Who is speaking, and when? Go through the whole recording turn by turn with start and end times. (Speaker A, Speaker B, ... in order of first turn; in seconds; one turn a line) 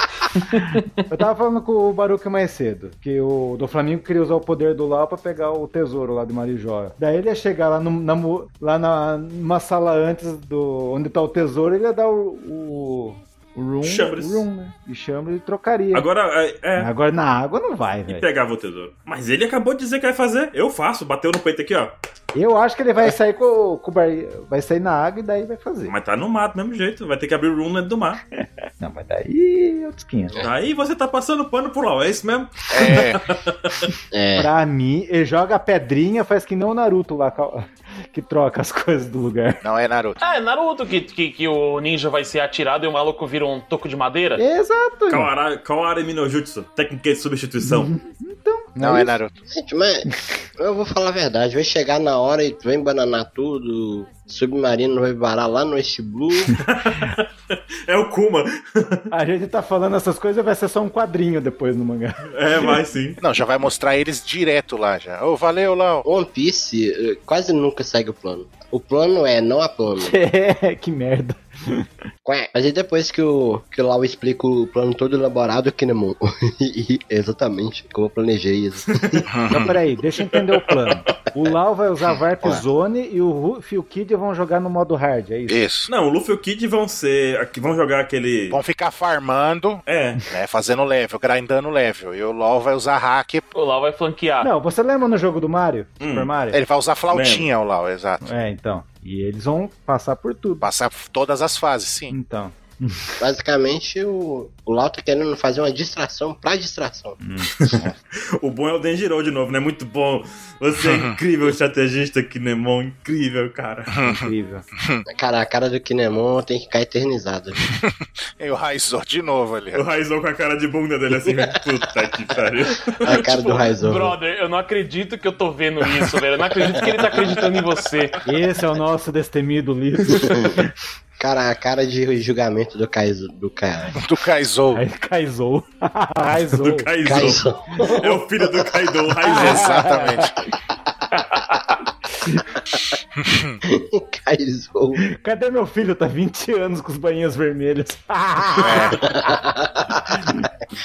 Speaker A: 1.1-16.1
Speaker B: 13.8-14.4
Speaker B: 15.9-16.9
Speaker A: 16.8-18.2
Speaker B: 18.1-21.9
Speaker A: 22.3-25.9
Speaker B: 25.9-28.2
Speaker A: 28.4-30.4
Speaker B: 30.4-33.9
Speaker C: 32.7-33.2
Speaker D: 34.1-34.5
Speaker A: 34.4-39.6
Speaker C: 39.6-40.2
Speaker E: 40.2-44.4
Speaker A: 44.4-45.3
Speaker B: 45.1-47.9
Speaker A: 47.6-49.2
Speaker C: 48.8-49.3
Speaker D: 49.5-50.1
Speaker D: 50.6-56.6
Speaker B: 56.6-59.1
Speaker A: 59.1-62.7
Speaker B: 62.3-63.2
Speaker C: 63.2-66.0
Speaker D: 66.0-70.1
Speaker A: 70.0-71.8
Speaker D: 72.2-79.3
Speaker B: 78.9-79.2
Speaker C: 79.3-79.8
Speaker A: 79.5-85.6
Speaker B: 80.3-81.2
Speaker C: 85.5-85.9
Speaker B: 85.9-88.6
Speaker C: 88.5-93.5
Speaker B: 89.8-90.2
Speaker E: 93.5-94.5
Speaker A: 94.4-96.6
Speaker B: 96.0-96.3
Speaker C: 96.5-98.3
Speaker B: 97.1-97.5
Speaker A: 98.2-100.7
Speaker C: 100.6-102.2
Speaker A: 102.1-103.2
Speaker D: 103.2-107.2
Speaker A: 107.2-107.9
Speaker B: 107.6-107.8
Speaker B: 108.4-114.0
Speaker C: 110.8-111.2
Speaker C: 114.0-114.2
Speaker A: 114.1-114.7
Speaker C: 114.8-115.0
Speaker D: 115.1-117.6
Speaker C: 117.7-119.8
Speaker B: 119.7-123.3
Speaker D: 123.0-124.2
Speaker E: 123.1-128.2
Speaker D: 126.8-127.2
Speaker A: 128.2-130.7
Speaker D: 130.2-130.6
Speaker D: 131.2-134.0
Speaker C: 133.9-134.8
Speaker A: 134.7-137.3
Speaker B: 136.5-139.9
Speaker D: 137.0-138.2
Speaker A: 139.2-140.3
Speaker C: 139.3-140.4
Speaker C: 143.2-143.6
Speaker D: 143.7-145.0
Speaker A: 145.0-149.2
Speaker C: 148.6-149.1
Speaker D: 149.0-150.2
Speaker A: 150.1-150.4